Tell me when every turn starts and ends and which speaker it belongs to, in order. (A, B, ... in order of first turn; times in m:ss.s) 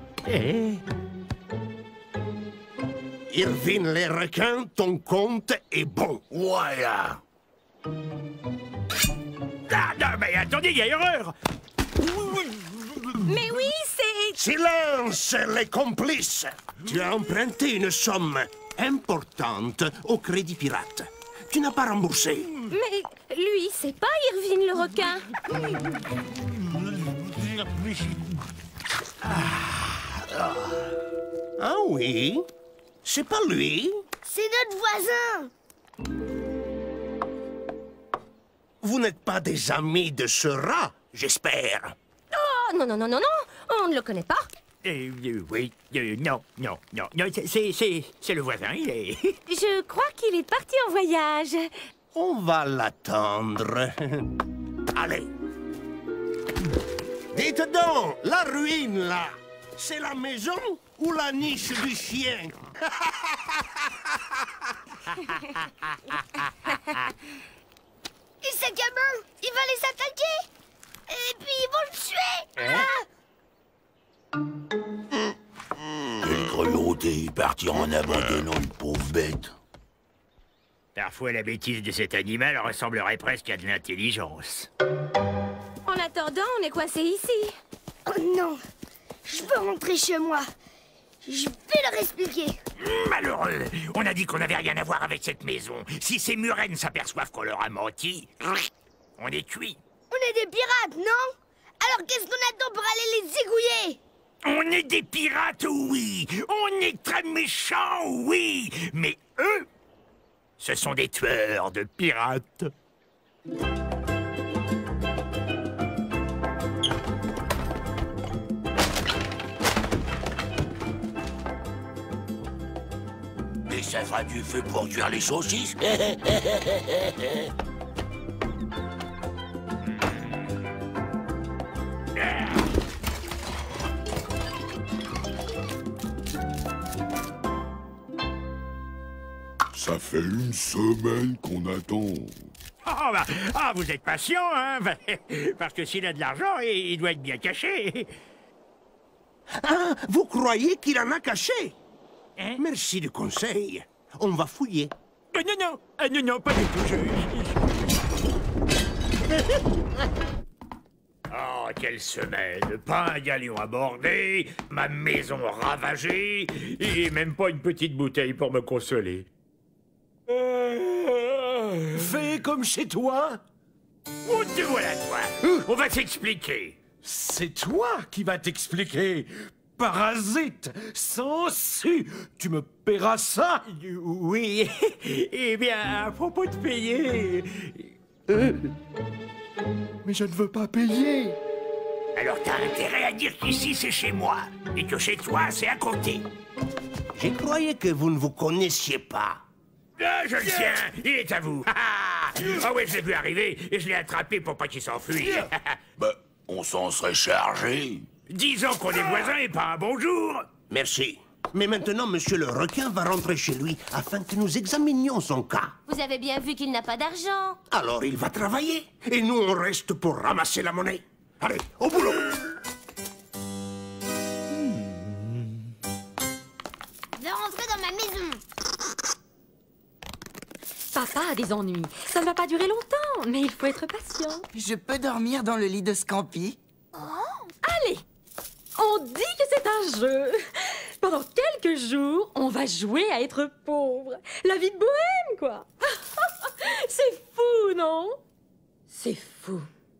0:00.2-0:00.8 A
0:03.3-0:06.2 B
0:06.3-0:07.2 C
0:09.7-0:11.3 A
0:12.0-0:13.2 A
0:13.2-0:14.4 D
0:14.4-0:22.6 B
0:22.7-0:25.2 D
0:31.6-0:32.5 B
0:33.0-0:34.0 B
0:34.2-0:35.5 E
0:38.8-0:42.0 B
0:42.3-0:44.5 D
0:44.8-0:49.4 A
0:49.5-0:51.7 D
0:52.1-0:54.3 B
0:54.9-0:55.3 B
0:57.3-1:03.6 B
1:08.4-1:10.5 E
1:11.1-1:13.0 E
1:12.6-1:12.9 A
1:16.2-1:19.5 C
1:21.0-1:24.7 A
1:25.8-1:27.5 D
1:28.0-1:28.6 E
1:29.2-1:30.4 E
1:31.2-1:32.6 E
1:32.8-1:38.6 A
1:39.2-1:39.8 A
1:40.1-1:44.0 E
1:44.4-1:49.7 A
1:50.6-1:52.7 A
2:03.6-2:07.5 C
2:19.7-2:22.5 F
2:22.8-2:28.1 A
2:29.5-2:31.8 B
2:32.6-2:34.9 B
2:35.3-2:37.6 A
2:41.3-2:49.3 A
2:50.3-2:52.1 A
2:51.9-2:53.4 G
2:54.2-2:56.8 A
2:57.0-3:03.8 G
3:03.8-3:07.9 A
3:08.3-3:08.7 G
3:10.0-3:11.4 G
3:12.2-3:16.3 A
3:17.1-3:19.4 B
3:20.0-3:25.8 A
3:26.0-3:28.1 C
3:28.3-3:30.5 A
3:30.7-3:35.7 B
3:35.9-3:37.6 D
3:37.7-3:42.4 B
3:47.2-3:48.4 E
3:50.9-3:54.4 H
3:54.5-3:56.6 I
3:57.6-3:58.0 H
3:58.8-4:08.2 H
4:08.9-4:09.7 H